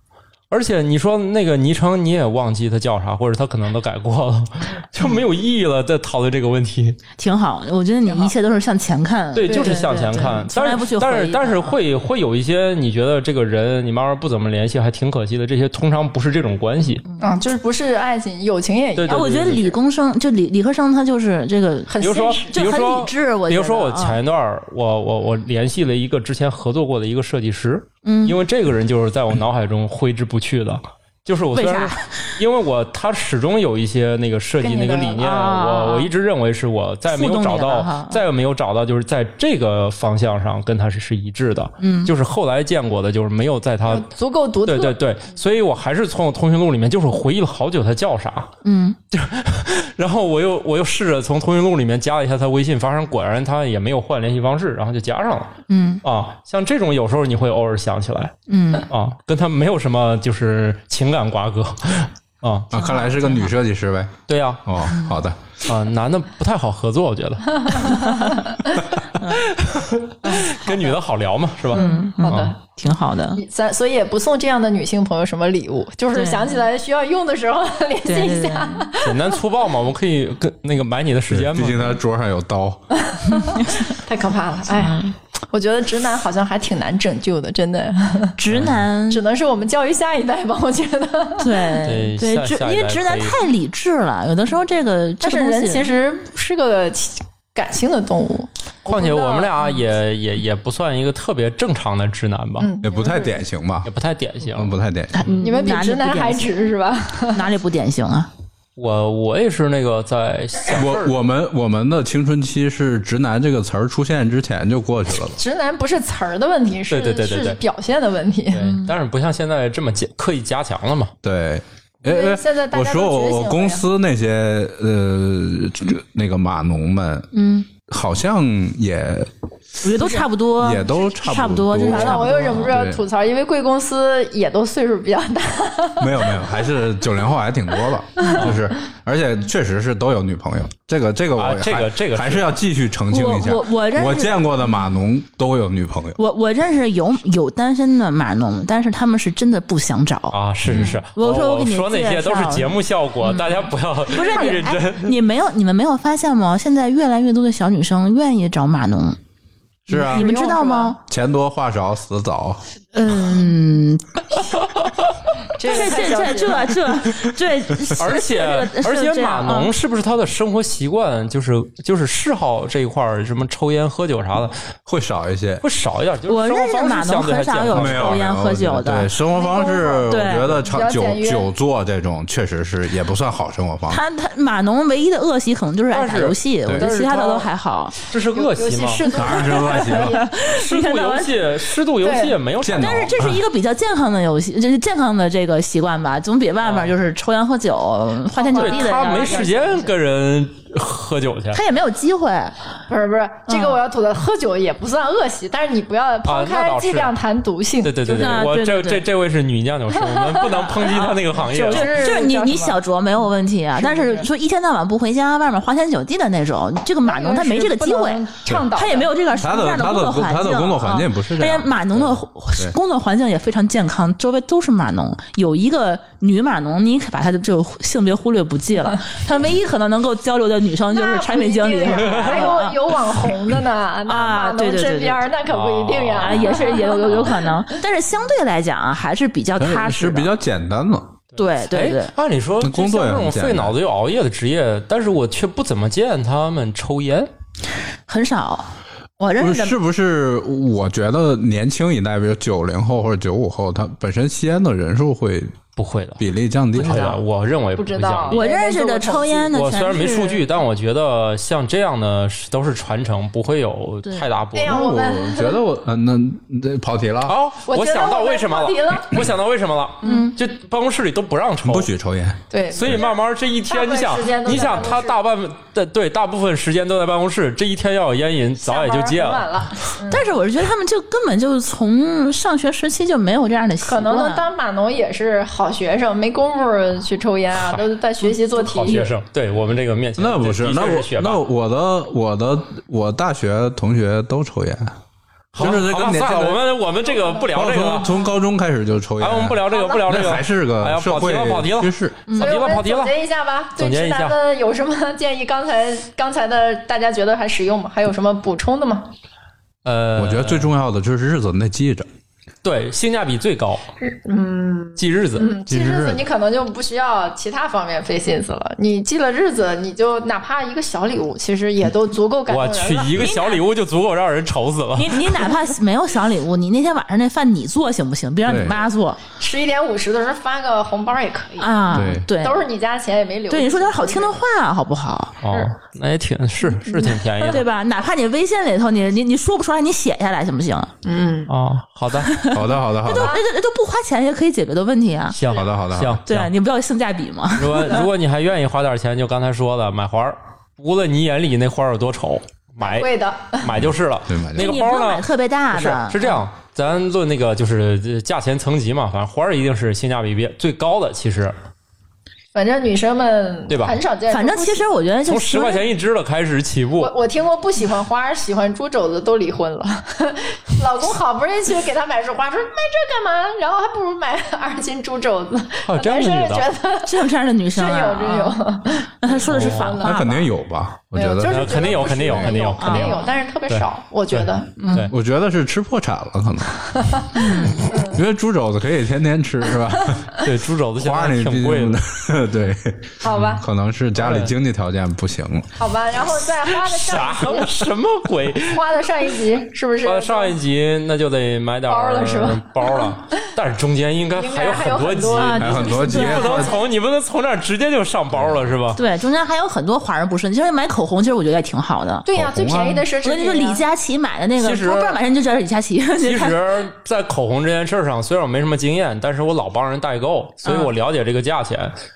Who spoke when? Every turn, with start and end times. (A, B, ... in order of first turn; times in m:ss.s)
0:00.5-0:07.0 A
0:07.2-0:11.8 B
0:08.1-0:08.3 C
0:09.3-0:17.0 A
0:09.5-0:09.8 C
0:17.2-0:19.7 C
0:19.0-0:19.6 A
0:19.1-0:24.2 B
0:21.9-0:22.6 C
0:22.0-0:44.1 A
0:28.0-0:28.4 B
0:31.5-0:32.2 B
0:34.6-0:35.2 C
0:35.2-0:36.1 B
0:37.1-0:38.2 B
0:41.8-0:42.1 B
0:43.9-0:45.0 C
0:44.7-0:48.5 A
0:48.6-0:49.0 B
0:49.1-0:58.4 A
0:55.7-0:56.0 B
0:58.5-0:58.9 B
0:58.9-1:02.7 A
1:02.7-1:04.1 D
1:02.7-1:03.5 B
1:04.3-1:04.6 A
1:04.6-1:05.4 D
1:04.9-1:05.2 B
1:05.6-1:08.0 A
1:07.7-1:08.8 C
1:07.8-1:08.4 B
1:09.2-1:09.4 B
1:09.4-1:12.5 A
1:10.4-1:11.0 C
1:11.7-1:12.6 C
1:11.7-1:13.4 B
1:13.4-1:19.4 C
1:16.1-1:16.7 B
1:18.0-1:18.9 B
1:19.0-1:22.0 A
1:21.3-1:22.8 D
1:23.0-1:28.4 C
1:23.3-1:23.9 B
1:24.7-1:25.1 B
1:28.4-1:29.2 B
1:28.5-1:28.8 A
1:29.1-1:31.7 C
1:31.4-1:35.9 B
1:31.8-1:33.4 A
1:35.2-1:39.5 C
1:38.9-1:42.7 A
1:42.6-1:43.4 C
1:42.8-1:43.9 D
1:43.8-1:44.7 A
1:44.6-1:45.2 D
1:45.1-1:46.6 B
1:45.4-1:47.5 C
1:47.3-1:48.3 B
1:48.8-1:51.2 A
1:50.7-1:55.4 D
1:55.4-1:58.7 C
1:56.9-1:57.6 A
1:58.5-2:01.1 A
1:58.6-1:58.9 B
2:01.2-2:07.3 D
2:02.0-2:03.8 C
2:07.3-2:07.7 B
2:07.9-2:09.3 D
2:09.8-2:12.8 B
2:10.6-2:13.0 D
2:11.8-2:16.5 C
2:16.0-2:26.2 D
2:18.2-2:18.4 C
2:18.3-2:18.6 A
2:21.4-2:22.5 A
2:23.1-2:24.8 B
2:26.2-2:39.2 B
2:30.3-2:35.2 A
2:39.9-2:40.2 D
2:39.9-2:41.0 B
2:39.9-2:41.0 C
2:41.1-2:42.6 D
2:42.9-2:44.5 B
2:45.5-2:46.8 C
2:45.6-2:49.7 B
2:48.0-2:54.6 A
2:54.9-2:55.6 D
2:55.6-2:58.4 A
2:56.3-2:59.2 B
2:57.7-3:04.0 D
2:59.3-3:01.5 C
3:00.1-3:00.6 B
3:03.9-3:08.0 B
3:05.9-3:07.5 A
3:08.1-3:09.1 A
3:08.3-3:10.3 C
3:09.1-3:10.2 D
3:09.5-3:11.4 B
3:10.4-3:13.2 A
3:12.0-3:12.4 C
3:12.6-3:13.4 D
3:12.7-3:19.8 B
3:16.6-3:16.9 A
3:18.3-3:19.9 C
3:18.6-3:21.6 A
3:21.5-3:22.6 B
3:22.9-3:28.4 C
3:23.5-3:23.8 B
3:26.2-3:27.1 A
3:27.8-3:31.9 A
3:28.1-3:29.0 B
3:30.1-3:32.8 C
3:30.6-3:53.0 B
3:33.8-3:34.3 C
3:37.0-3:39.1 C
3:39.4-3:41.7 D
3:50.9-3:57.6 C
3:51.9-3:52.6 A
3:54.1-3:55.3 B
3:55.5-3:57.2 A
3:56.2-4:00.3 B
3:59.6-4:01.2 D
4:01.3-4:07.3 A
4:01.4-4:02.1 B
4:02.6-4:03.8 D
4:08.1-4:09.8 B
4:09.4-4:15.6 D
4:15.8-4:16.2 A
4:16.2-4:17.2 D
4:16.8-4:18.4 A
4:16.8-4:17.2 B
4:17.8-4:19.5 C
4:18.3-4:20.4 B
4:19.5-4:24.8 A
4:24.0-4:24.3 B
4:24.6-4:25.6 C
4:24.7-4:27.3 D
4:27.3-4:31.9 A
4:27.7-4:29.3 C
4:30.0-4:30.3 C
4:30.0-4:30.4 B
4:31.6-4:33.0 D
4:32.5-4:33.2 C
4:32.7-4:39.7 A
4:33.7-4:35.2 C
4:38.6-4:40.3 C
4:40.1-4:44.5 B
4:43.8-4:49.1 C
4:47.6-4:47.8 A
4:48.6-4:51.4 A
4:50.2-4:54.9 D
4:55.5-4:58.1 A
4:55.6-4:56.6 D
4:57.1-4:57.5 C
4:57.5-5:02.2 D
4:59.2-5:03.1 A
4:59.7-5:00.0 C
5:02.3-5:02.6 B
5:02.3-5:09.1 C
5:03.8-5:04.4 A
5:09.8-5:10.7 A
5:10.2-5:12.1 D
5:12.6-5:13.8 A
5:14.0-5:23.3 C
5:15.0-5:15.5 A
5:15.7-5:16.2 D
5:22.5-5:25.3 A
5:23.2-5:23.6 B
5:25.0-5:29.2 B
5:28.4-5:28.7 D
5:29.4-5:34.4 C
5:31.6-5:32.6 B
5:31.9-5:32.3 D
5:33.5-5:35.4 B
5:35.4-5:37.6 A
5:36.9-5:40.9 B
5:41.0-5:41.5 C
5:41.5-5:42.3 A
5:42.2-5:45.4 B
5:42.5-5:43.4 D
5:43.0-5:43.4 C
5:45.3-5:46.5 A
5:45.5-5:46.2 D
5:46.3-5:48.1 B
5:47.6-6:01.5 A
5:52.8-5:53.7 C
5:53.8-5:54.8 D
5:54.6-5:56.4 B
6:02.5-6:04.9 C
6:03.7-6:04.0 A
6:04.3-6:05.8 B
6:05.3-6:07.1 A
6:07.0-6:20.5 C
6:15.8-6:16.7 A
6:17.0-6:18.6 B
6:19.2-6:20.4 B
6:19.5-6:20.0 A
6:20.0-6:22.5 D
6:21.2-6:24.9 C
6:21.4-6:25.1 A
6:22.8-6:23.3 B
6:24.8-6:25.1 B
6:25.1-6:27.3 D
6:27.0-6:28.2 C
6:27.3-6:27.9 B
6:28.0-6:30.4 D
6:30.4-6:32.0 A
6:31.0-6:35.7 D
6:33.2-6:33.6 C
6:34.2-6:34.5 A
6:35.8-6:37.9 C
6:36.7-6:38.8 A
6:38.7-6:40.6 C
6:40.0-6:49.0 A
6:41.9-6:43.1 C
6:44.4-6:46.8 C
6:45.4-6:46.7 B
6:45.6-6:46.7 D
6:48.4-6:48.7 D
6:49.0-6:52.3 B
6:52.2-6:53.8 C
6:52.3-6:53.0 D
6:53.2-6:56.6 B
6:54.6-6:55.2 A
6:56.2-7:01.9 A
7:00.6-7:00.9 B